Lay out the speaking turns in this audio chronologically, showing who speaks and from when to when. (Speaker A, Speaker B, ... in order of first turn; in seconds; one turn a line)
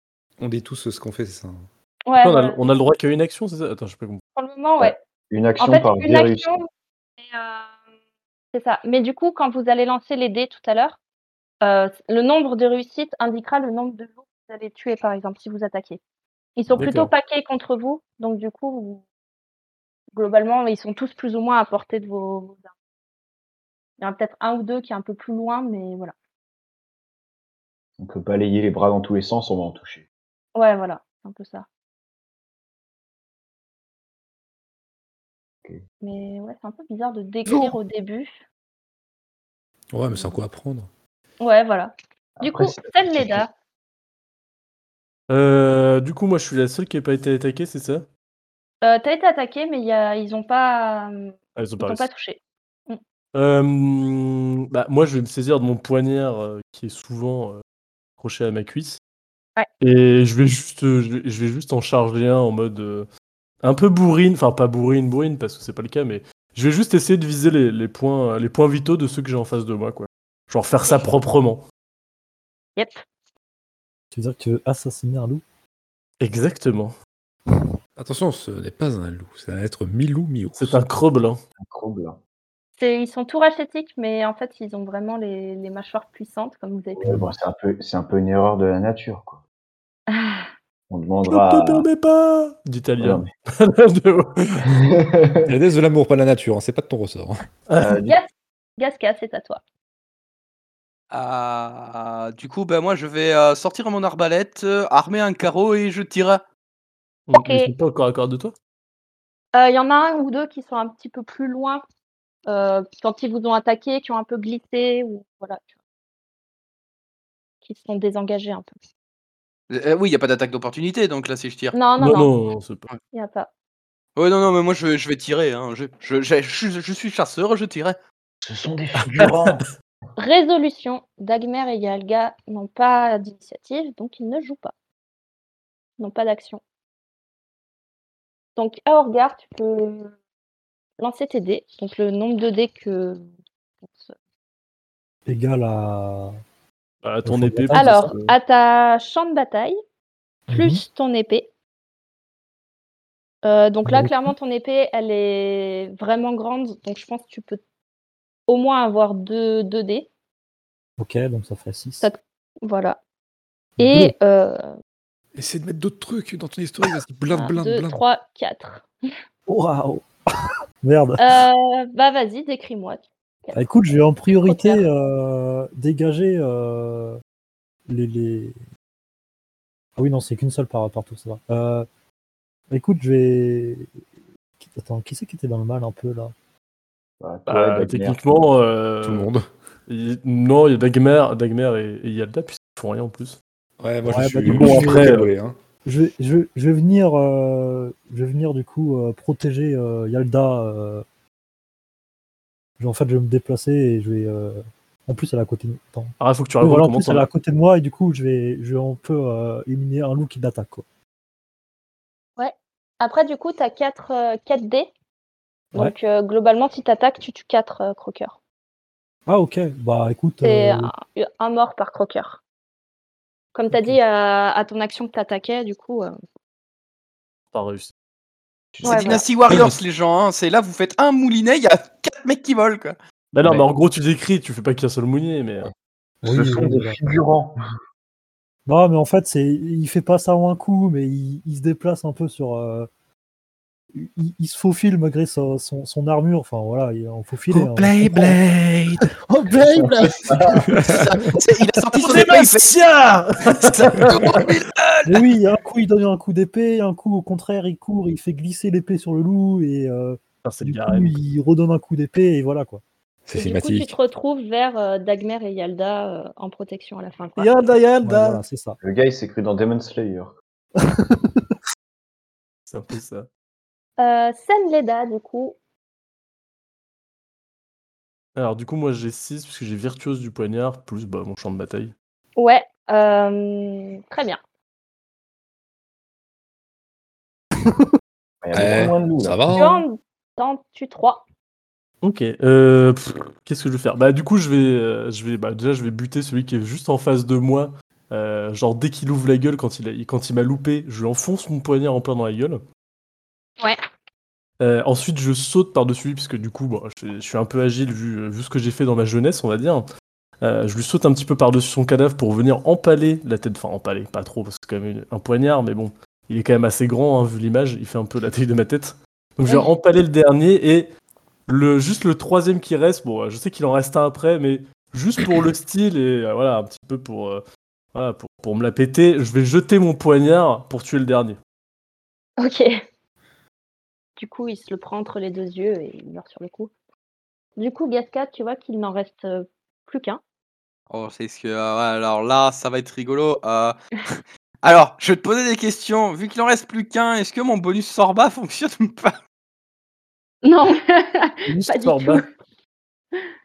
Speaker A: 0.4-1.6
Speaker B: 2.1-2.6
Speaker C: 2.2-4.2
Speaker B: 4.3-5.0
Speaker D: 4.8-6.5
Speaker B: 5.6-6.7
Speaker B: 7.2-7.7
Speaker B: 8.5-11.0
Speaker B: 11.6-16.0
Speaker B: 16.6-19.0
Speaker C: 16.8-17.1
Speaker B: 20.1-22.7
Speaker B: 24.0-26.1
Speaker D: 28.0-30.1
Speaker B: 30.6-31.7
Speaker B: 36.0-38.3
Speaker A: 39.9-40.9
Speaker B: 41.4-43.5
Speaker D: 42.4-43.5
Speaker C: 45.3-48.1
Speaker B: 48.8-53.0
Speaker C: 51.6-52.1
Speaker C: 53.4-57.6
Speaker C: 58.2-59.0
Speaker C: 59.8-63.1
Speaker C: 63.6-71.6
Speaker B: 70.8-71.1
Speaker B: 72.8-73.0
Speaker E: 74.1-75.4
Speaker C: 76.2-76.9
Speaker A: 78.0-80.8
Speaker C: 80.6-81.4
Speaker D: 81.6-82.2
Speaker B: 82.8-87.1
Speaker D: 87.0-89.4
Speaker B: 90.1-90.5
Speaker D: 90.9-91.9
Speaker C: 91.2-94.7
Speaker D: 93.0-93.3
Speaker D: 94.7-95.5
Speaker A: 95.5-97.4
Speaker C: 97.7-98.0
Speaker D: 97.8-98.2
Speaker B: 98.0-99.6
Speaker F: 101.1-106.4
Speaker C: 107.3-108.5
Speaker B: 107.4-107.7
Speaker B: 109.5-111.8
Speaker B: 112.5-115.7
Speaker B: 117.6-118.8
Speaker F: 119.7-121.8
Speaker B: 121.7-122.3
Speaker C: 122.0-122.9
Speaker B: 123.1-123.5
Speaker F: 124.2-128.0
Speaker D: 128.4-129.6
Speaker C: 129.0-129.6
Speaker B: 130.2-134.7
Speaker B: 136.0-136.6
Speaker B: 138.6-140.1
Speaker B: 141.0-143.2
Speaker B: 143.8-144.1
Speaker E: 145.3-146.4
Speaker C: 147.0-148.1
Speaker E: 147.2-148.1
Speaker B: 147.8-149.8
Speaker E: 150.5-150.8
Speaker B: 150.5-151.5
Speaker B: 153.4-157.6
Speaker E: 153.9-154.3
Speaker B: 158.5-160.1
Speaker E: 161.0-162.1
Speaker B: 162.0-163.0
Speaker E: 163.8-164.1
Speaker B: 163.8-164.7
Speaker A: 165.3-168.0
Speaker B: 167.3-168.9
Speaker E: 169.5-170.1
Speaker E: 170.8-171.2
Speaker B: 171.2-173.6
Speaker E: 173.6-177.2
Speaker B: 174.3-174.8
Speaker E: 177.9-178.6
Speaker E: 180.0-181.9
Speaker E: 182.7-183.9
Speaker E: 184.6-186.3
Speaker D: 187.2-188.4
Speaker C: 187.5-189.3
Speaker A: 189.1-189.5
Speaker C: 189.9-193.4
Speaker A: 193.8-195.6
Speaker E: 194.1-195.2
Speaker C: 194.5-195.3
Speaker E: 195.8-201.0
Speaker E: 202.8-210.8
Speaker C: 206.2-207.3
Speaker B: 212.4-214.9
Speaker B: 215.7-218.4
Speaker E: 219.3-220.9
Speaker B: 220.4-222.4
Speaker B: 223.5-226.2
Speaker E: 223.7-224.0
Speaker C: 227.5-227.9
Speaker D: 228.8-229.3
Speaker F: 228.8-233.0
Speaker B: 228.8-229.2
Speaker C: 233.3-235.7
Speaker D: 236.2-237.6
Speaker E: 236.2-237.0
Speaker E: 238.7-242.9
Speaker E: 244.0-248.4
Speaker C: 247.5-249.0
Speaker E: 249.3-250.7
Speaker D: 249.8-250.7
Speaker A: 250.7-251.1
Speaker F: 250.8-252.7
Speaker C: 251.8-254.4
Speaker F: 253.5-255.3
Speaker E: 255.1-262.8
Speaker C: 260.4-261.1
Speaker A: 263.3-263.9
Speaker B: 263.4-267.5
Speaker C: 267.4-268.4
Speaker E: 268.0-268.8
Speaker D: 268.8-270.4
Speaker E: 270.8-271.6
Speaker C: 272.7-273.3
Speaker B: 274.0-275.6
Speaker C: 278.4-281.9
Speaker B: 282.4-284.4
Speaker D: 288.4-289.6
Speaker A: 288.5-289.8
Speaker B: 289.5-291.2
Speaker C: 292.0-302.6
Speaker C: 304.6-309.8
Speaker C: 310.4-320.9
Speaker C: 321.5-327.4
Speaker C: 327.9-331.4
Speaker B: 332.4-332.7
Speaker B: 334.2-336.7
Speaker B: 337.6-340.2
Speaker F: 340.9-349.2
Speaker B: 350.4-352.3
Speaker C: 351.5-352.2